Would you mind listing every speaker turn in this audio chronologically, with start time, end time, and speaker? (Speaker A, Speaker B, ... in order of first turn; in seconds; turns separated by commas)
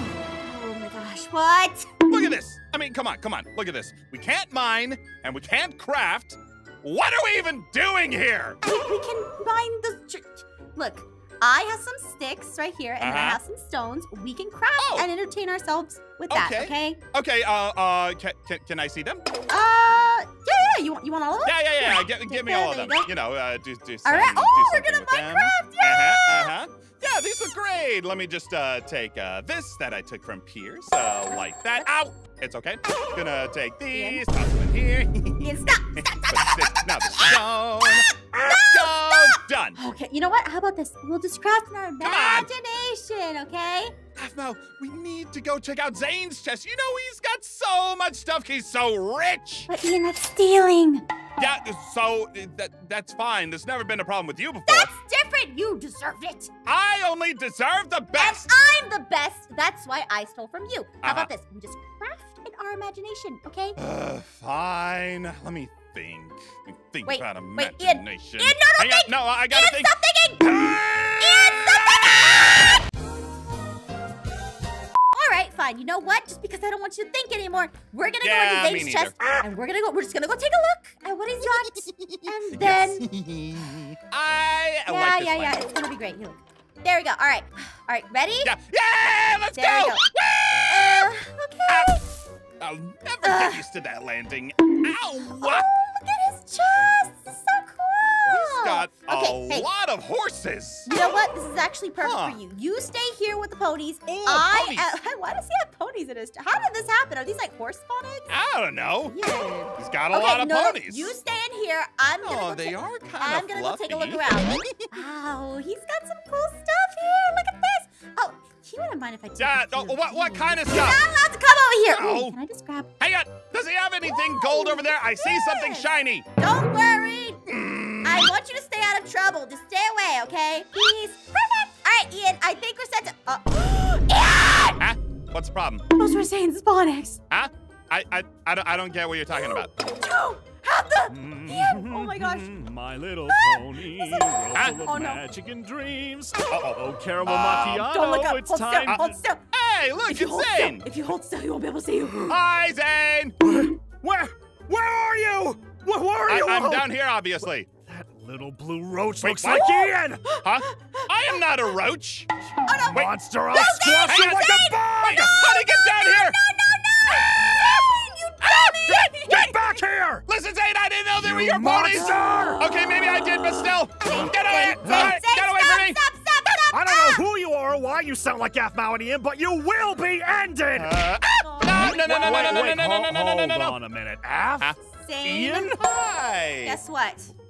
Speaker A: 0.4-2.0, Speaker B: 2.1-8.6, Speaker A: 8.6-17.0, Speaker B: 13.0-13.4, Speaker B: 14.8-15.1, Speaker B: 16.3-19.2, Speaker A: 19.5-23.1, Speaker B: 21.5-39.8, Speaker A: 24.1-26.5, Speaker A: 33.9-34.2, Speaker A: 35.4-43.9, Speaker B: 42.0-42.5, Speaker B: 44.1-49.7, Speaker A: 49.7-51.0, Speaker B: 51.4-54.9, Speaker A: 54.6-56.5, Speaker B: 56.6-58.5, Speaker A: 58.1-63.8, Speaker B: 61.0-61.3, Speaker B: 63.8-69.9, Speaker A: 67.1-72.7, Speaker B: 70.6-71.5, Speaker A: 75.1-83.0, Speaker B: 78.2-79.2, Speaker B: 81.9-85.6, Speaker A: 84.9-88.5, Speaker B: 88.5-91.1, Speaker A: 89.5-90.1, Speaker A: 90.7-92.1, Speaker B: 91.7-92.0, Speaker B: 92.6-95.7, Speaker A: 93.2-93.6, Speaker A: 95.2-99.7, Speaker B: 98.3-100.9, Speaker A: 100.9-108.3, Speaker B: 102.0-102.4, Speaker B: 104.1-104.9, Speaker B: 108.3-109.1, Speaker A: 109.1-122.9, Speaker B: 109.8-111.1, Speaker B: 112.2-114.5, Speaker B: 119.4-121.0, Speaker B: 121.9-122.3, Speaker B: 123.0-126.2, Speaker A: 124.1-127.4, Speaker B: 127.5-128.3, Speaker A: 128.0-134.8, Speaker B: 134.8-135.8, Speaker A: 135.9-137.2, Speaker B: 137.3-139.7, Speaker A: 139.3-142.6, Speaker C: 141.1-149.2, Speaker A: 143.3-145.2, Speaker B: 144.6-144.8, Speaker B: 146.5-147.9, Speaker A: 147.5-149.4, Speaker B: 148.9-150.9, Speaker A: 150.1-152.4, Speaker B: 152.2-153.3, Speaker C: 153.4-156.9, Speaker B: 156.3-157.7, Speaker C: 157.9-160.2, Speaker B: 159.2-159.8, Speaker A: 159.5-161.4, Speaker B: 160.4-162.3, Speaker A: 162.7-169.8, Speaker C: 162.9-165.5, Speaker B: 162.9-166.4, Speaker B: 168.4-168.9, Speaker C: 168.9-170.2, Speaker B: 170.2-176.0, Speaker C: 171.2-172.7, Speaker A: 174.0-177.2, Speaker C: 174.8-175.1, Speaker C: 176.7-181.2, Speaker B: 180.8-183.8, Speaker A: 181.4-182.7, Speaker C: 181.8-185.8, Speaker A: 184.9-185.8, Speaker B: 185.6-186.8, Speaker A: 186.6-187.3